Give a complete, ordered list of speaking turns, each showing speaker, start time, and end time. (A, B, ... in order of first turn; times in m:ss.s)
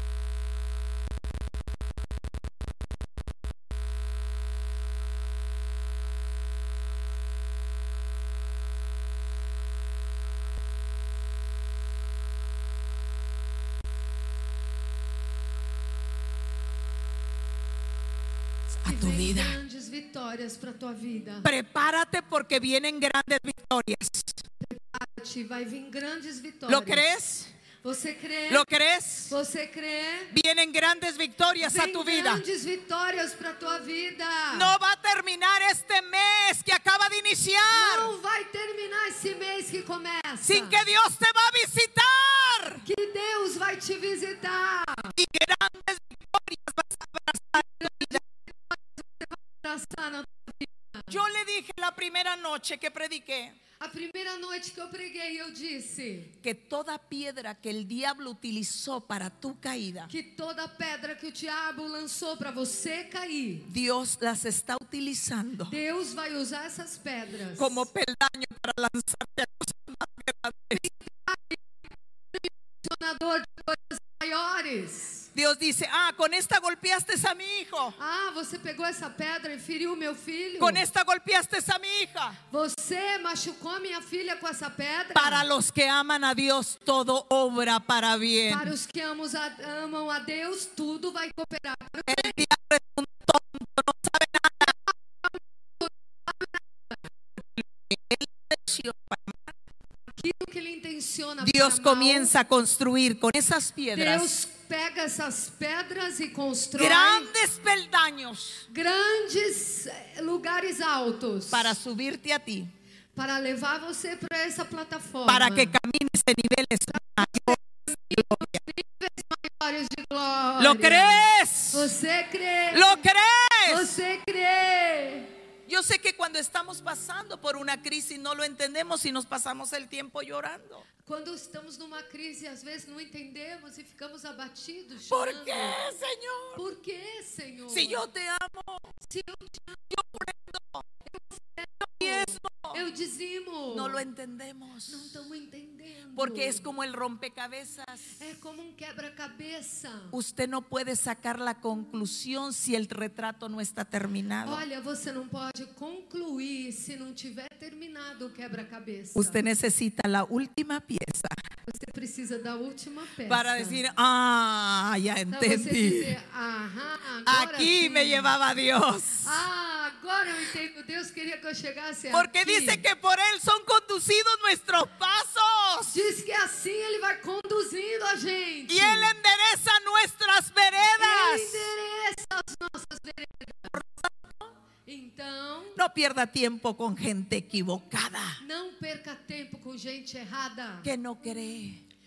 0:18.7-0:19.6 A
0:18.8-0:21.5 B
0:21.4-0:24.4 A
0:24.6-0:27.0 B
0:26.7-0:27.5 A
0:27.8-0:28.7 B
0:28.5-0:29.3 A
0:29.3-0:30.3 B
0:30.3-0:32.4 A
0:31.6-0:34.7 B
0:34.5-0:38.1 A
0:37.7-0:40.8 B
0:40.4-0:42.8 A
0:42.8-0:45.2 B
0:45.2-0:48.2 A
0:47.6-0:51.2 B
0:51.1-0:53.6 A
0:53.8-0:56.3 B
0:56.4-1:00.1 A
1:00.1-1:03.7 B
1:03.7-1:05.8 A
1:05.7-1:07.9 B
1:07.6-1:10.8 A
1:10.8-1:11.8 B
1:12.3-1:15.3 B
1:15.3-1:18.0 A
1:18.0-1:20.8 B
1:20.6-1:22.4 A
1:22.5-1:25.5 B
1:25.1-1:28.7 A
1:28.5-1:32.4 B
1:32.1-1:34.7 A
1:34.6-1:37.1 B
1:37.4-1:39.5 A
1:40.2-1:42.3 B
1:41.4-1:44.3 A
1:43.9-1:47.3 B
1:46.7-1:48.7 A
1:48.7-1:51.8 B
1:51.5-1:52.7 A
1:53.2-1:55.8 B
1:55.3-1:57.6 A
1:56.9-2:03.0 B
1:58.1-1:58.6 A
2:00.6-2:01.9 A
2:02.7-2:04.0 A
2:03.6-2:05.4 B
2:05.7-2:10.8 A
2:11.0-2:15.8 B
2:15.1-2:16.6 A
2:16.5-2:18.0 B
2:17.7-2:18.9 A
2:19.0-2:20.0 B
2:19.9-2:20.8 A
2:21.0-2:24.0 B
2:21.9-2:22.8 A
2:23.7-2:25.1 A
2:24.9-2:26.6 B
2:26.1-2:28.2 A
2:28.2-2:30.2 B
2:30.1-2:34.6 A
2:34.4-2:39.4 B
2:39.1-2:41.3 A
2:41.6-2:43.8 B
2:43.3-2:46.1 A
2:45.3-2:48.3 B
2:47.2-2:49.4 A
2:49.2-2:52.8 B
2:52.1-2:56.0 A
2:55.9-2:59.2 B
2:58.7-3:01.7 A
3:01.0-3:03.8 B
3:03.7-3:04.5 A
3:04.8-3:05.8 B
3:05.8-3:08.4 A
3:08.4-3:10.9 B
3:10.8-3:11.8 A